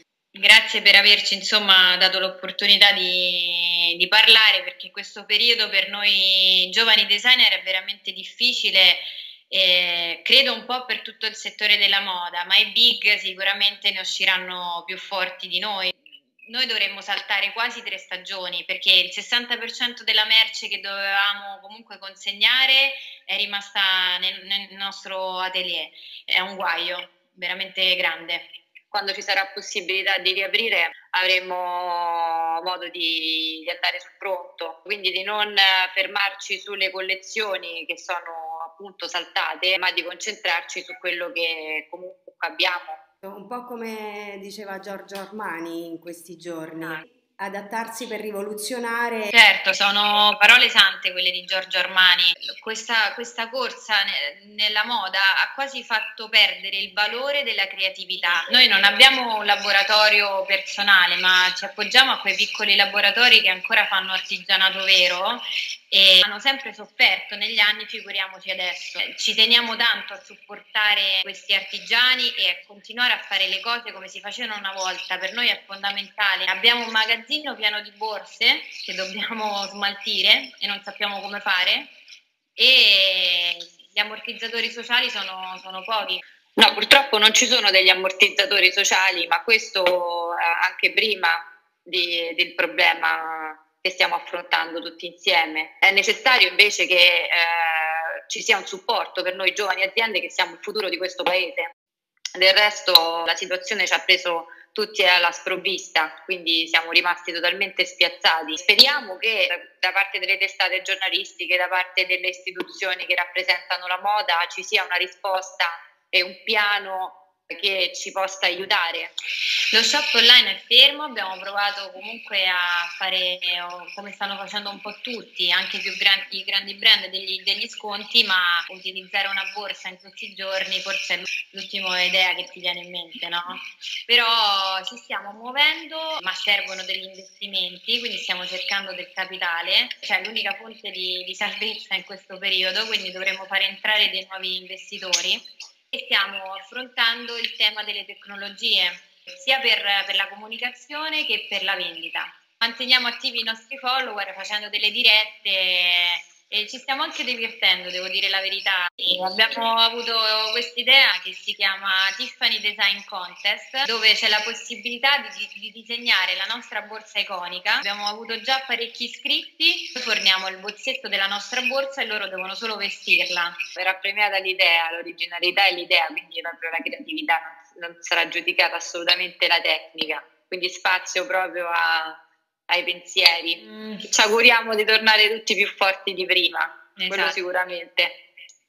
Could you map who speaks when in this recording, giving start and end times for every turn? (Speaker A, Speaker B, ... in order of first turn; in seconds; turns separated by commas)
Speaker A: 0.3-28.5, Speaker B: 28.9-43.0, Speaker C: 43.2-49.3, Speaker A: 49.3-81.9, Speaker A: 82.6-86.2, Speaker B: 86.6-101.7, Speaker B: 102.3-119.1, Speaker A: 119.7-173.6, Speaker B: 173.8-188.2, Speaker A: 183.6-184.1, Speaker A: 187.0-187.4